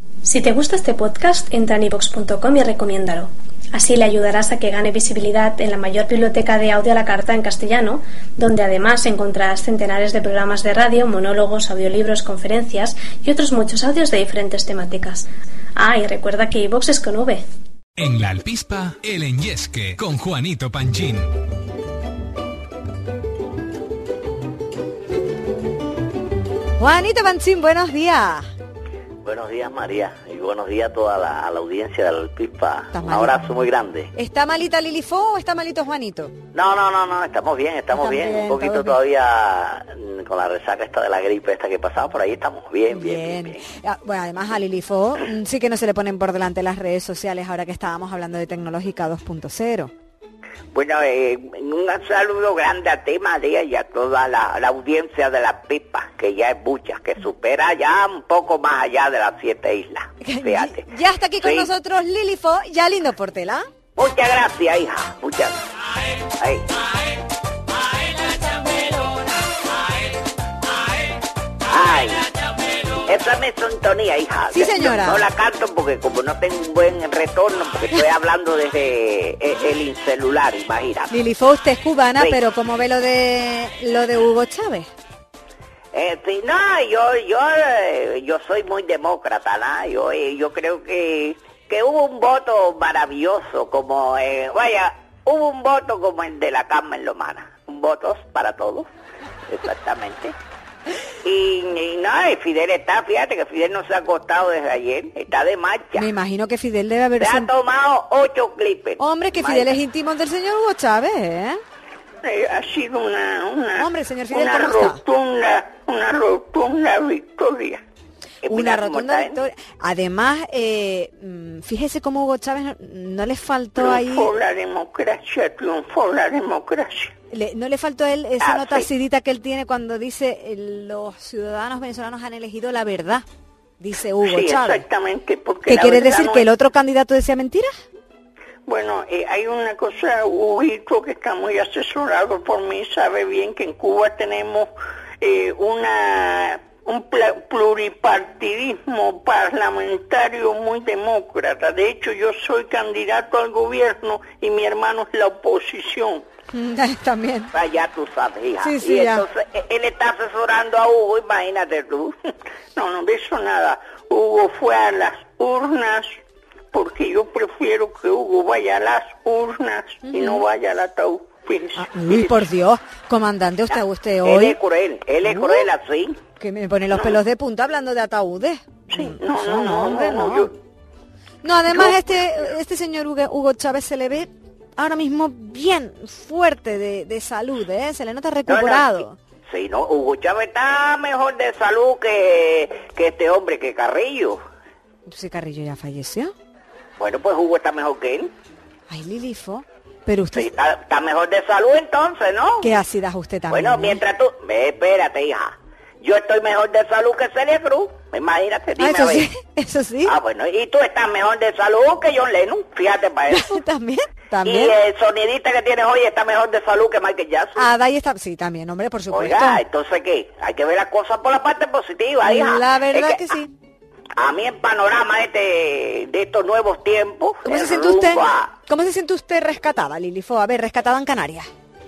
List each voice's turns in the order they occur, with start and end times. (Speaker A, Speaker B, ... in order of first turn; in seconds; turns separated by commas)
Speaker A: 0.2-17.4, Speaker B: 18.0-21.3, Speaker C: 26.8-28.4, Speaker D: 29.2-34.1, Speaker C: 32.9-33.4, Speaker C: 34.1-36.3, Speaker D: 36.5-43.5, Speaker C: 37.9-39.0, Speaker C: 42.9-49.9, Speaker E: 50.7-60.8, Speaker C: 60.2-63.7, Speaker E: 61.4-61.7, Speaker E: 64.0-65.6, Speaker E: 66.4-66.7, Speaker E: 71.7-72.2, Speaker E: 73.0-81.1, Speaker C: 74.5-75.2, Speaker C: 81.1-84.9, Speaker E: 85.9-98.8, Speaker E: 99.5-100.3, Speaker E: 101.2-106.1, Speaker C: 106.0-107.5, Speaker E: 107.2-109.8, Speaker C: 109.0-111.6, Speaker E: 112.2-117.8, Speaker C: 113.8-115.0, Speaker E: 118.4-119.4, Speaker C: 118.5-124.3, Speaker E: 123.8-127.1, Speaker C: 127.3-133.2, Speaker E: 128.4-128.9, Speaker C: 133.8-134.8, Speaker E: 134.2-136.4, Speaker C: 135.7-137.7, Speaker E: 138.7-144.7, Speaker E: 145.2-156.2, Speaker C: 156.5-157.5, Speaker E: 157.5-162.2, Speaker C: 158.6-159.2, Speaker E: 162.8-166.2, Speaker E: 166.7-172.4, Speaker C: 170.1-170.4, Speaker C: 171.7-174.6, Speaker E: 173.7-176.2, Speaker C: 175.2-175.7, Speaker C: 176.4-180.5, Speaker E: 178.9-180.5, Speaker C: 181.4-189.2, Speaker E: 181.7-182.0, Speaker E: 188.5-194.4, Speaker C: 195.1-196.3, Speaker E: 197.0-198.3, Speaker C: 198.9-200.5, Speaker E: 200.3-202.8, Speaker C: 202.6-204.0, Speaker E: 203.5-209.3, Speaker C: 208.8-210.1, Speaker E: 210.0-213.6, Speaker C: 213.3-214.7, Speaker E: 214.4-217.7, Speaker C: 217.5-219.6, Speaker E: 219.1-223.3, Speaker C: 222.2-223.5, Speaker E: 224.2-228.5, Speaker C: 227.4-231.5